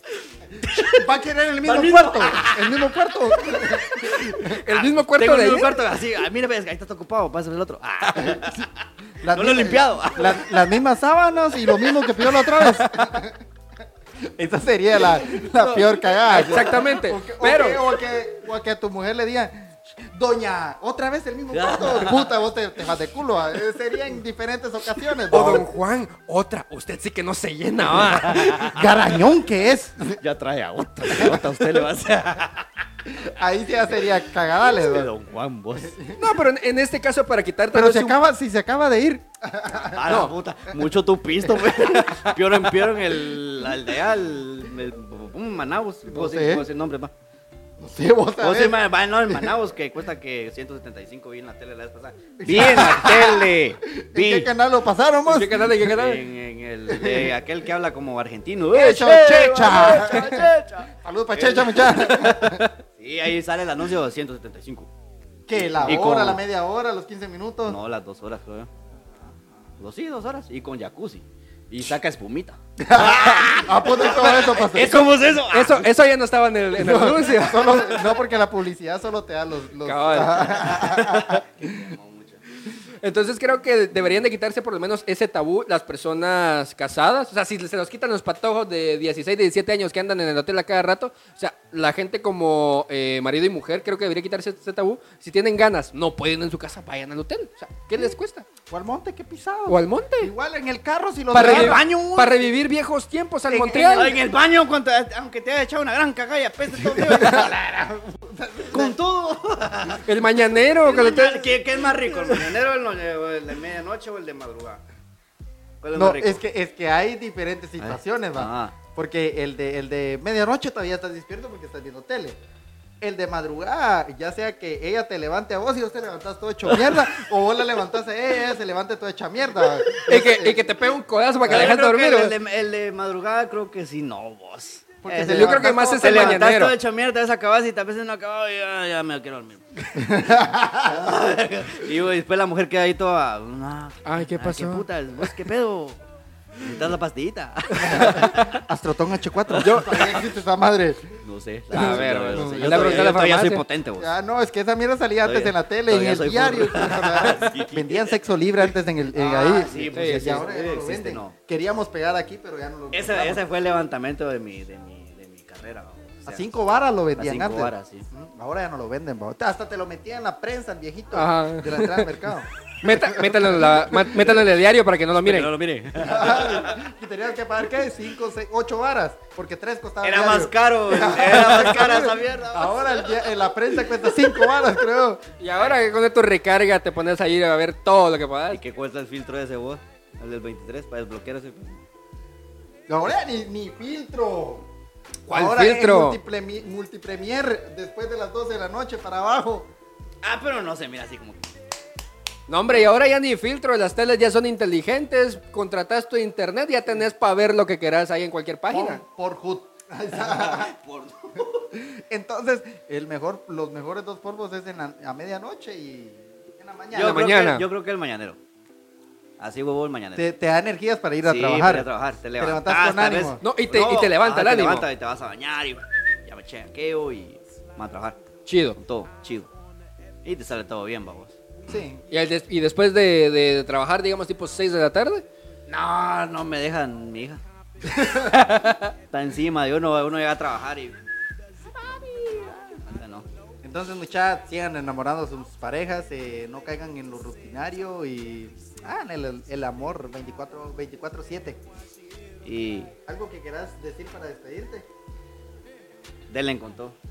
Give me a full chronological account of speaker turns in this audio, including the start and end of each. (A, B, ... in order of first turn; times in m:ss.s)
0:00.6-0:04.6 A
0:01.6-0:02.9 B
0:03.5-0:03.8 B
0:04.1-0:05.7 C
0:04.7-0:08.7 B
0:08.2-0:08.6 A
0:09.2-0:13.4 A
0:09.3-0:10.8 B
0:11.6-0:13.2 B
0:14.2-0:25.7 A
0:15.6-0:17.8 C
0:16.4-0:16.6 B
0:21.5-0:22.3 B
0:25.3-0:28.8 C
0:28.2-0:28.7 B
0:28.6-0:30.2 A
0:30.2-0:32.7 B
0:31.1-0:31.7 A
0:33.1-0:35.1 A
0:34.6-0:36.0 B
0:35.8-0:36.2 A
0:36.2-0:38.2 C
0:37.7-0:40.3 A
0:39.7-0:47.1 B
0:41.6-0:42.8 C
0:46.1-0:46.6 A
0:47.8-0:49.5 A
0:48.4-0:54.5 B
0:52.4-0:55.8 A
0:52.5-0:52.8 C
0:55.2-0:56.2 C
0:55.8-1:02.3 B
0:56.9-0:57.3 A
0:58.7-1:02.6 A
1:00.0-1:00.4 C
1:02.2-1:02.7 C
1:03.0-1:04.9 B
1:05.5-1:07.8 A
1:05.5-1:06.4 B
1:07.7-1:08.7 B
1:09.8-1:15.9 B
1:12.8-1:15.0 A
1:14.8-1:18.0 C
1:16.8-1:21.8 A
1:19.8-1:21.4 C
1:20.4-1:22.4 B
1:23.0-1:38.4 C
1:38.7-1:42.1 A
1:39.7-1:40.3 C
1:41.3-1:44.1 C
1:41.3-1:42.4 B
1:43.5-1:44.2 A
1:43.9-1:47.6 B
1:46.8-1:49.0 A
1:48.7-1:50.1 B
1:50.0-1:51.5 C
1:50.8-1:54.8 B
1:55.8-1:56.4 B
1:56.0-2:02.4 A
1:57.8-1:58.7 B
2:03.0-2:10.7 A
2:10.1-2:12.3 C
2:11.5-2:19.9 B
2:15.0-2:16.4 A
2:15.3-2:16.7 C
2:19.9-2:21.0 A
2:20.8-2:26.0 B
2:24.0-2:25.3 C
2:26.6-2:28.6 B
2:27.8-2:31.2 A
2:28.0-2:28.3 C
2:29.5-2:30.2 B
2:29.6-2:30.0 C
2:31.2-2:34.1 B
2:31.7-2:33.6 C
2:31.8-2:33.0 A
2:34.0-2:43.4 A
2:35.2-2:38.2 B
2:39.1-2:41.4 B
2:39.8-2:40.5 C
2:42.9-2:46.4 B
2:46.3-2:54.4 A
2:47.2-2:48.1 B
2:51.1-2:52.1 C
2:52.8-2:55.5 C
2:55.2-2:56.9 B
2:56.0-3:05.2 A
3:00.0-3:03.3 B
3:01.4-3:02.1 C
3:05.4-3:08.6 C
3:05.6-3:05.8 B
3:08.5-3:11.8 B
3:12.9-3:14.7 A
3:15.3-3:16.2 C
3:15.3-3:19.7 A
3:20.2-3:21.5 B
3:22.5-3:29.0 C
3:28.7-3:30.7 A
3:30.2-3:31.6 B
3:31.7-3:37.3 A
3:36.9-3:38.4 B
3:37.0-3:37.6 C
3:39.4-3:40.3 B
3:40.2-3:43.4 A
3:41.2-3:48.2 B
3:43.4-3:44.9 C
3:48.5-3:48.8 C
3:48.8-3:49.5 B
3:50.2-3:51.4 B
3:51.7-3:52.0 A
3:52.1-3:55.2 C
3:55.7-3:57.4 B
3:57.9-3:58.4 A
3:58.3-3:58.9 C
3:58.5-4:01.0 B
4:01.8-4:02.8 A
4:02.8-4:03.3 B
4:03.6-4:11.7 A
4:12.4-4:13.0 B
4:13.1-4:14.9 A
4:16.3-4:17.0 B